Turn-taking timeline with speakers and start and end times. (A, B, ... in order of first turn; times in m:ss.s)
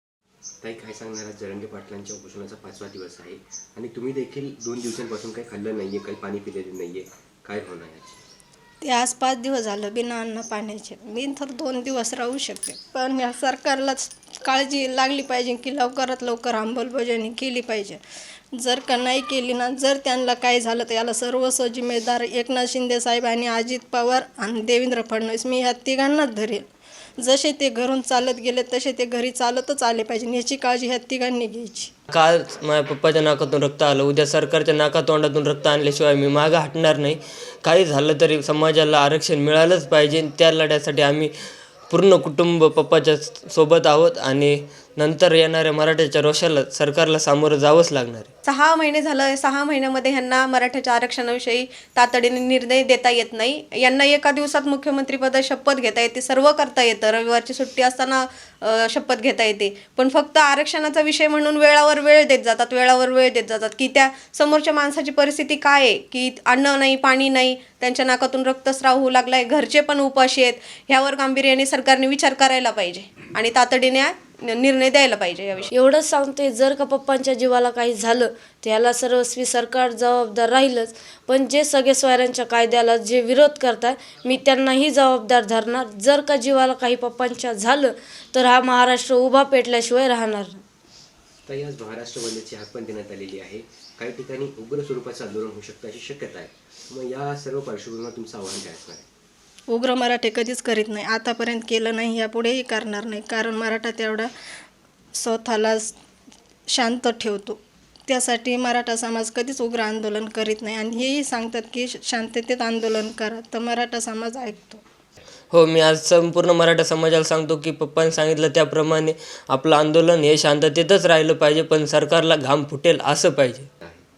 0:00.6-0:08.2 A
0:08.8-0:18.0 B
0:18.5-0:26.6 B
0:27.2-0:31.9 B
0:32.1-0:41.3 C
0:41.9-0:48.3 C
0:48.4-1:15.7 D
1:15.7-1:30.6 E
1:31.4-1:39.1 A
1:39.7-1:44.3 B
1:45.2-1:46.0 B
1:46.7-1:54.8 B
1:55.5-2:03.7 C